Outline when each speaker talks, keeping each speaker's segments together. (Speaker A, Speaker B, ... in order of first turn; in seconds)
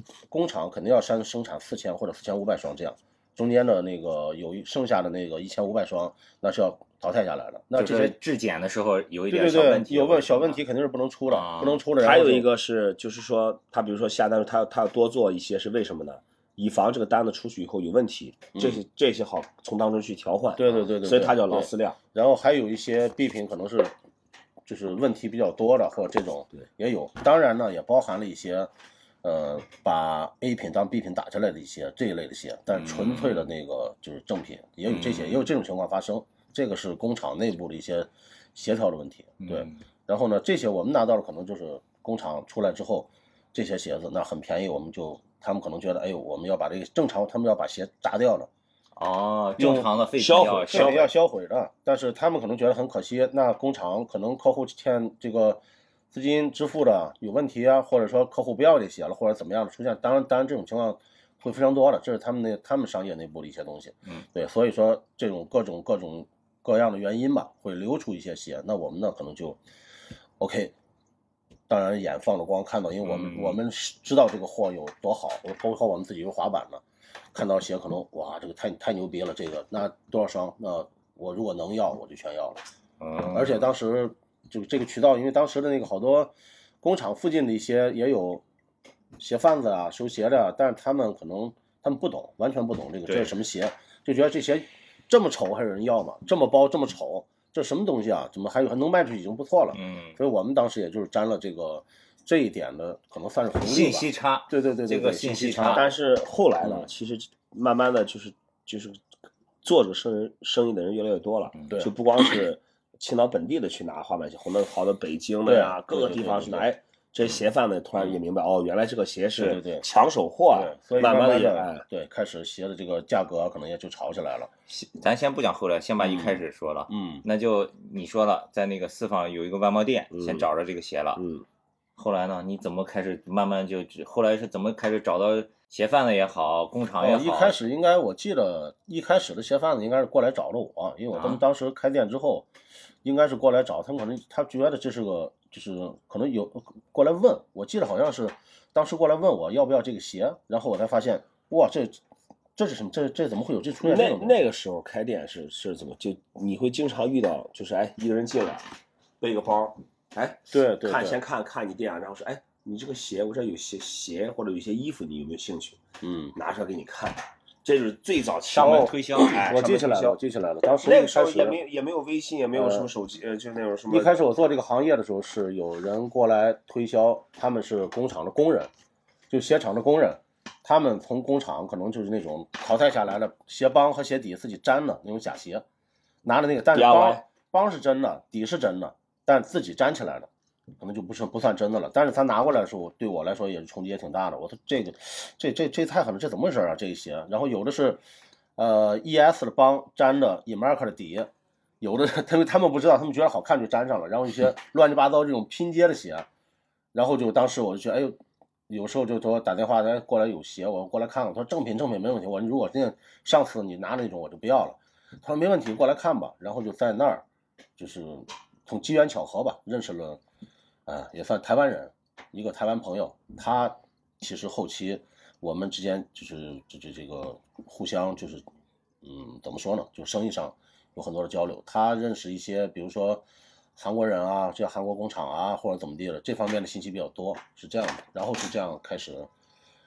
Speaker A: 0.3-8.2, 9.3-12.5, 18.5-18.8, 20.6-23.9, 24.7-28.7, 29.2-48.5, 49.6-49.9, 50.7-55.6, 56.1-69.6, 70.4-70.7, 71.7-76.8, 77.3-82.6, 83.3-88.4, 89.2-105.9, 115.5-116.7, 119.4-119.8, 120.5-124.5, 126.1-126.4, 126.9-127.2, 137.0-142.5, 143.0-152.0, 152.6-154.4, 160.5-161.2, 166.0-166.3, 168.6-171.6, 172.5-172.9, 173.9-178.7, 179.3-185.6, 186.2-190.3, 190.8-198.0, 198.6-201.3, 201.8-206.3, 206.9-208.2, 208.7-217.2, 217.8-220.2, 220.9-228.4, 229.0-233.2, 233.8-239.3
Speaker B: 7.8-10.6, 11.3-11.8, 32.7-33.5, 34.9-35.5, 39.4-39.8, 49.0-51.1, 73.0-73.6, 83.0-83.7, 93.1-93.3, 99.7-100.2, 103.6-105.9, 124.7-131.2, 132.0-137.6, 141.1-141.4, 168.5-169.6
Speaker C: 12.0-22.0, 50.2-51.1, 105.7-109.0, 109.6-121.8, 130.1-130.5, 131.2-131.4, 153.8-158.7, 159.2-165.8, 166.3-170.2, 170.8-174.2, 186.7-187.2